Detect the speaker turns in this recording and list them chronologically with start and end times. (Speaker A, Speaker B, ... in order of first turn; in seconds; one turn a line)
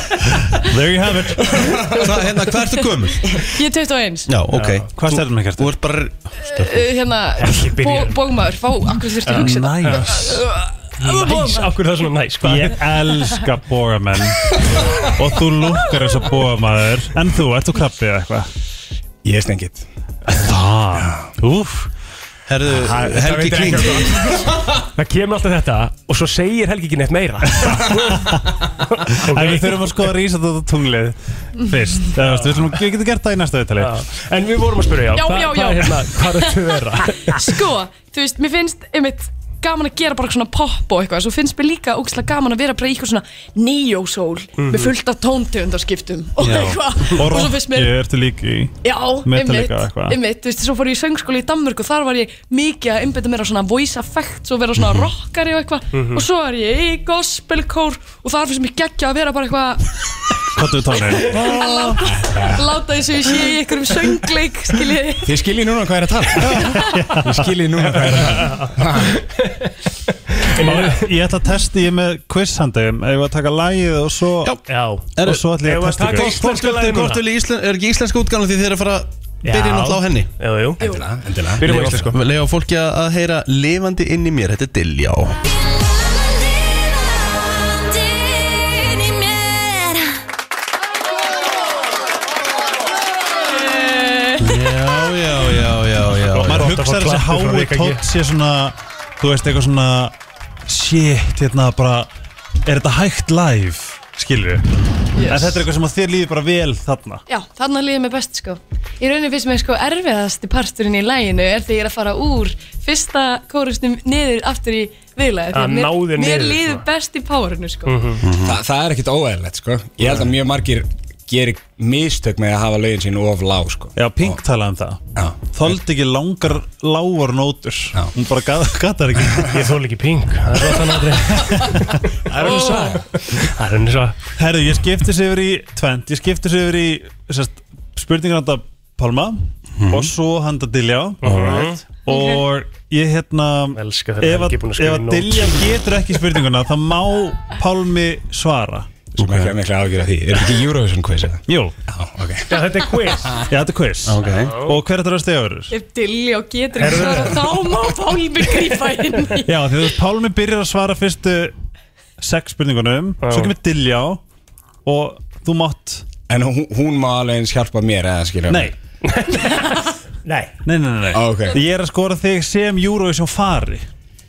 Speaker A: 0.4-1.9
Speaker B: 1.5-2.0
Speaker C: 1.9-3.2
Speaker D: 3.4-4.3
Speaker C: 4.3-6.8
Speaker E: 4.5-4.8
Speaker A: 4.9-5.8
Speaker D: 6.5-11.7
Speaker E: 7.4-8.3
Speaker E: 9.2-10.3
Speaker A: 9.3-10.4
Speaker E: 11.0-12.8
Speaker A: 12.4-18.5
Speaker B: 19.2-19.8
Speaker A: 20.3-21.9
Speaker B: 20.9-21.3
Speaker C: 22.5-24.5
Speaker B: 22.7-24.6
Speaker E: 24.9-28.3
Speaker A: 27.5-28.4
Speaker E: 28.9-30.0
Speaker A: 29.1-34.0
Speaker E: 32.2-32.7
Speaker E: 33.8-37.4
Speaker D: 35.1-47.9
Speaker E: 44.6-44.9
Speaker A: 46.4-50.2
Speaker C: 46.4-47.3
Speaker D: 48.8-59.9
Speaker C: 54.8-55.1
Speaker E: 55.9-56.2
Speaker A: 60.5-62.0
Speaker D: 61.1-65.3
Speaker B: 62.1-62.6
Speaker B: 65.2-66.5
Speaker D: 66.4-66.9
Speaker A: 66.5-67.5
Speaker B: 67.2-69.2
Speaker E: 68.3-69.7
Speaker E: 70.3-71.1
Speaker A: 70.5-74.6
Speaker E: 74.7-75.1
Speaker C: 75.1-80.3
Speaker A: 75.2-76.4
Speaker E: 75.6-77.2
Speaker E: 79.4-80.8
Speaker D: 80.8-81.0
Speaker B: 80.8-82.0
Speaker E: 81.6-82.1
Speaker C: 81.6-85.4
Speaker D: 94.1-94.3
Speaker C: 94.4-96.7
Speaker E: 96.2-98.0
Speaker A: 96.4-100.1
Speaker A: 100.7-102.1
Speaker A: 102.6-107.2
Speaker D: 105.1-105.6
Speaker D: 107.3-118.0
Speaker E: 115.5-116.8
Speaker E: 117.8-118.2
Speaker C: 118.2-118.6
Speaker B: 118.4-124.4
Speaker A: 123.9-129.7
Speaker B: 125.1-125.5
Speaker E: 129.5-134.3
Speaker A: 131.3-131.6
Speaker B: 132.3-133.0
Speaker D: 132.4-132.9
Speaker A: 134.4-148.9
Speaker C: 139.8-140.1
Speaker E: 141.2-141.8
Speaker C: 141.2-141.7
Speaker D: 142.1-142.4
Speaker E: 143.8-145.6
Speaker B: 149.2-152.6
Speaker C: 149.2-149.6
Speaker A: 151.5-151.8
Speaker E: 152.5-153.4
Speaker A: 153.4-155.7
Speaker C: 154.0-154.6
Speaker E: 154.2-154.8
Speaker D: 155.7-159.5
Speaker E: 156.8-157.4
Speaker A: 159.4-161.5
Speaker A: 162.2-164.2
Speaker E: 163.2-163.5
Speaker A: 164.8-166.1
Speaker B: 166.3-168.7
Speaker A: 168.5-168.8
Speaker E: 169.1-170.5
Speaker A: 170.6-173.9
Speaker B: 171.1-171.6